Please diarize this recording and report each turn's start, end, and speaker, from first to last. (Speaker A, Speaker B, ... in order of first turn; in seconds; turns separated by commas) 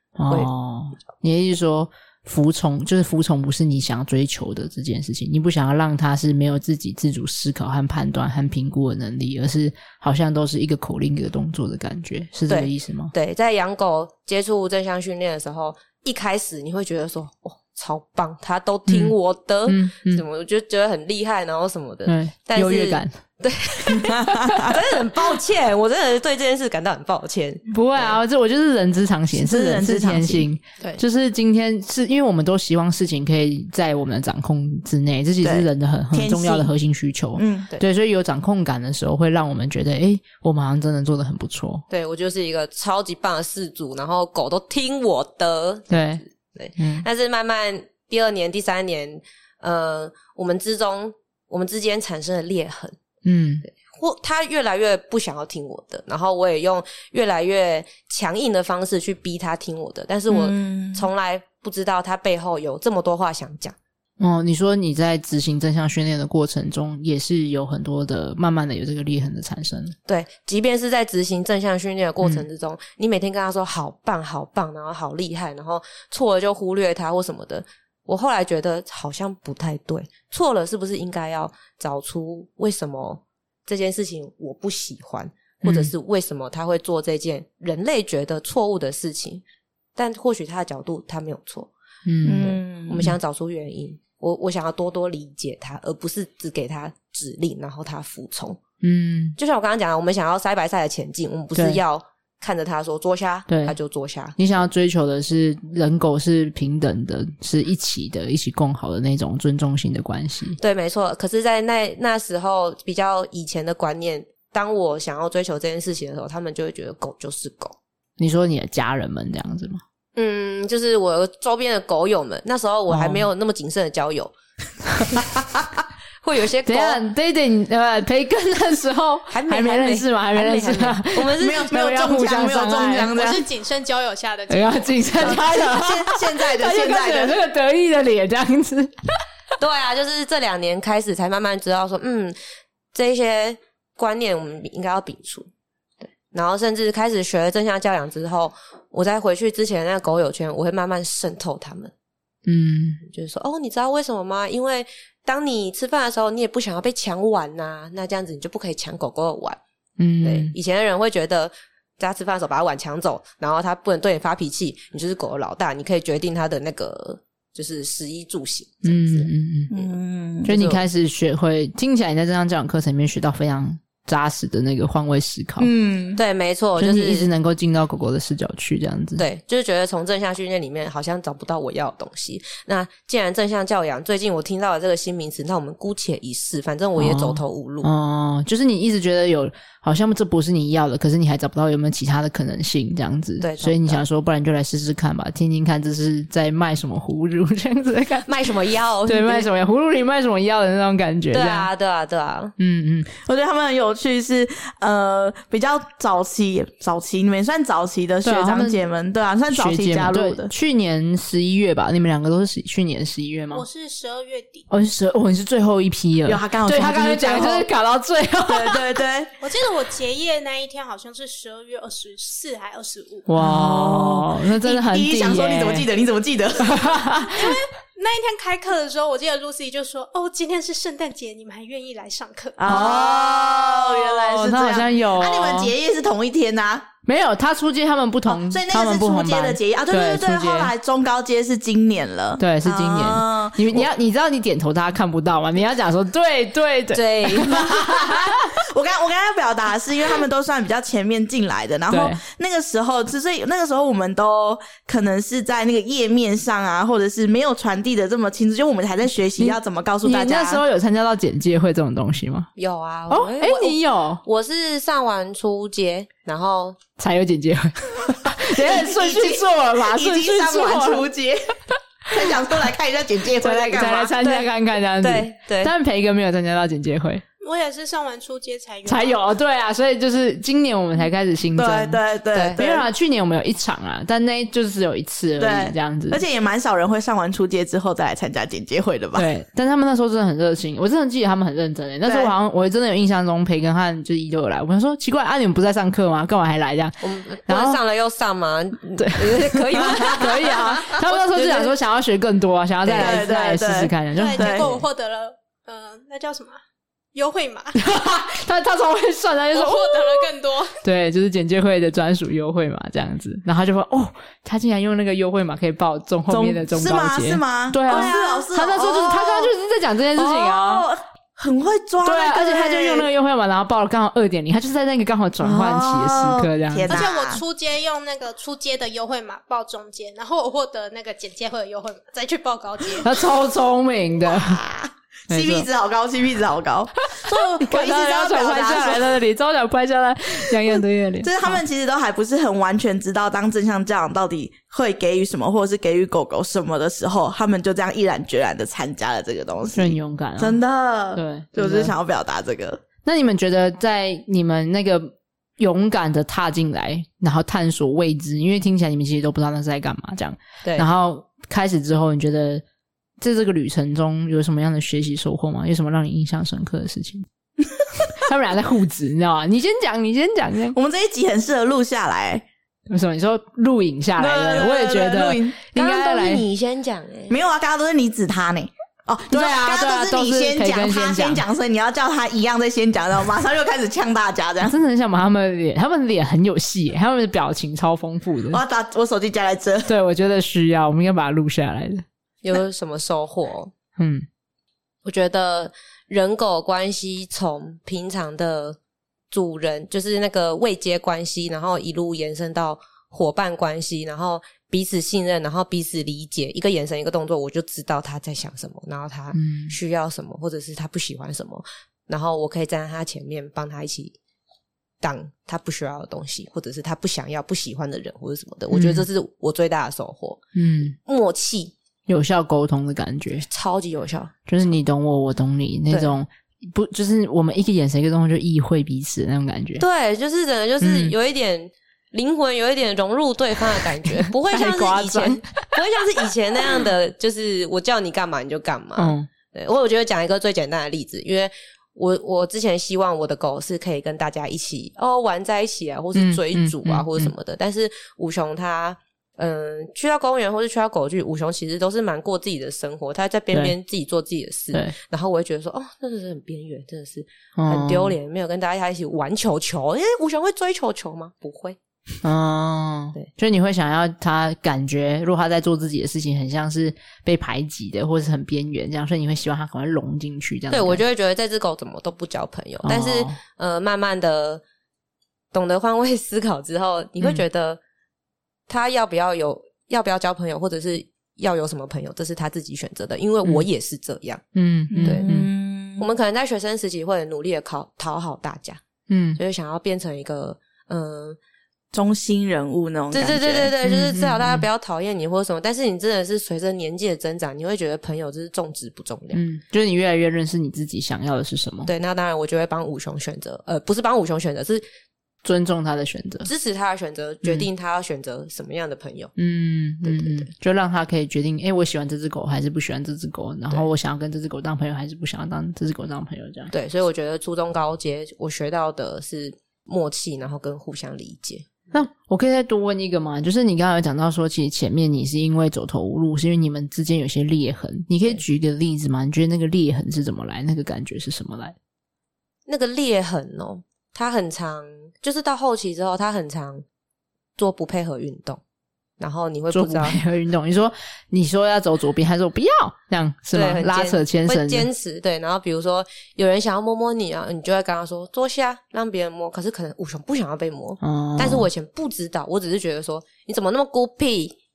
Speaker A: 0.2-13.1, Speaker B: 12.5-28.2, Speaker A: 18.9-19.1, Speaker A: 19.7-20.2, Speaker A: 22.1-23.1, Speaker A: 23.9-24.8, Speaker C: 24.2-24.7, Speaker A: 27.7-41.8, Speaker C: 29.3-30.5, Speaker C: 35.4-36.7, Speaker C: 37.4-37.7, Speaker B: 41.9-46.0, Speaker A: 45.9-46.2, Speaker B: 46.5-53.0, Speaker A: 46.8-47.0, Speaker A: 53.2-53.6, Speaker B: 53.7-63.7, Speaker C: 60.3-61.1, Speaker A: 64.2-69.9, Speaker B: 70.1-89.4, Speaker A: 85.6-85.9, Speaker B: 90.0-91.7, Speaker A: 92.0-92.5, Speaker C: 92.2-93.1, Speaker B: 92.3-98.6, Speaker A: 98.8-99.4, Speaker B: 99.4-104.3, Speaker A: 101.5-101.8, Speaker A: 103.5-103.7, Speaker A: 104.4-110.6, Speaker B: 110.6-117.8, Speaker A: 118.2-119.8, Speaker B: 120.2-124.3, Speaker A: 122.9-123.2, Speaker B: 126.2-127.0, Speaker A: 126.7-133.2, Speaker B: 129.3-131.7, Speaker C: 131.4-133.4, Speaker D: 133.1-135.4, Speaker A: 134.5-138.9, Speaker C: 135.2-137.4, Speaker B: 139.6-142.4, Speaker B: 142.9-145.5, Speaker B: 146.0-151.9, Speaker A: 152.4-153.0, Speaker B: 153.1-159.6, Speaker A: 160.0-160.5, Speaker B: 160.2-170.8, Speaker A: 168.8-169.7, Speaker C: 169.7-170.5, Speaker A: 170.4-175.7, Speaker C: 175.6-176.2, Speaker B: 176.2-177.3, Speaker A: 176.8-179.2, Speaker B: 179.2-187.9, Speaker A: 187.0-198.3, Speaker B: 193.4-194.0, Speaker B: 198.2-199.5, Speaker A: 199.1-201.7, Speaker B: 201.3-202.5, Speaker A: 202.6-203.1, Speaker C: 203.2-210.5, Speaker A: 208.2-208.8, Speaker A: 209.5-213.6, Speaker D: 213.5-214.7, Speaker A: 214.7-218.8, Speaker C: 216.2-217.7, Speaker C: 218.5-219.3, Speaker D: 219.4-223.3, Speaker A: 223.3-225.9, Speaker C: 223.4-227.0, Speaker A: 226.6-227.6, Speaker D: 227.3-232.8, Speaker C: 232.6-236.9, Speaker A: 232.7-235.7, Speaker A: 237.1-240.7, Speaker C: 238.2-243.9, Speaker A: 242.4-248.4, Speaker B: 246.9-247.6, Speaker C: 247.5-260.6, Speaker A: 251.9-252.2, Speaker A: 259.4-262.5, Speaker B: 262.6-266.8, Speaker A: 263.1-264.2, Speaker A: 267.0-271.1, Speaker C: 268.5-271.5, Speaker C: 272.1-274.1, Speaker A: 273.4-277.2, Speaker B: 274.1-274.5, Speaker B: 275.0-275.7, Speaker D: 277.4-279.2, Speaker A: 278.9-282.0, Speaker C: 281.6-282.9, Speaker B: 282.3-282.6, Speaker A: 282.6-286.2, Speaker C: 285.4-289.3, Speaker A: 289.1-297.8, Speaker C: 292.0-292.3, Speaker B: 297.0-301.7, Speaker A: 299.0-304.6, Speaker B: 302.9-303.2, Speaker C: 302.9-304.7, Speaker D: 304.1-306.6, Speaker D: 307.1-307.8, Speaker A: 307.7-310.3, Speaker D: 309.5-310.8, Speaker A: 310.8-320.9, Speaker C: 316.3-319.5, Speaker C: 320.1-323.1, Speaker A: 322.0-327.0, Speaker C: 325.4-327.4, Speaker D: 326.9-333.1, Speaker A: 333.0-334.6, Speaker C: 334.2-339.2, Speaker A: 335.3-335.7, Speaker A: 337.1-341.6, Speaker C: 340.7-352.8, Speaker A: 349.7-350.6, Speaker A: 351.1-351.9, Speaker A: 353.0-362.6, Speaker A: 363.2-367.2, Speaker A: 368.1-370.8, Speaker C: 370.7-372.4, Speaker A: 372.9-376.4, Speaker C: 374.2-375.6, Speaker B: 375.7-377.4, Speaker C: 377.3-384.7, Speaker A: 379.3-381.4, Speaker A: 384.6-388.6, Speaker C: 388.5-389.9, Speaker A: 389.9-392.0, Speaker B: 392.4-393.7, Speaker A: 394.0-394.2, Speaker B: 395.0-398.8, Speaker B: 399.3-414.1, Speaker A: 409.3-409.8, Speaker B: 415.0-420.4, Speaker A: 418.7-419.1, Speaker A: 420.5-420.9, Speaker B: 421.1-421.7, Speaker A: 422.1-423.4, Speaker B: 423.5-424.3, Speaker A: 424.5-429.8, Speaker B: 429.8-461.8, Speaker A: 430.8-431.1, Speaker A: 434.5-435.6, Speaker A: 439.0-439.3, Speaker A: 446.1-447.3, Speaker A: 457.6-458.1, Speaker A: 462.2-471.0, Speaker B: 470.7-474.6, Speaker A: 472.8-473.4, Speaker B: 475.5-477.8, Speaker B: 478.7-484.4, Speaker A: 484.5-485.5, Speaker C: 484.9-486.1, Speaker B: 485.0-485.3, Speaker B: 486.0-488.8, Speaker A: 489.1-489.4, Speaker B: 489.4-491.4, Speaker C: 491.9-493.7, Speaker B: 493.1-499.4, Speaker A: 493.8-494.6, Speaker A: 499.3-501.9, Speaker B: 501.9-504.8, Speaker A: 505.4-506.5, Speaker B: 506.4-509.3, Speaker A: 509.4-516.7, Speaker B: 510.0-510.5, Speaker B: 516.7-521.8, Speaker A: 521.9-531.7, Speaker B: 532.7-536.8, Speaker B: 537.6-538.6, Speaker B: 539.2-540.2, Speaker A: 539.7-544.9, Speaker B: 543.5-554.5, Speaker A: 551.0-551.7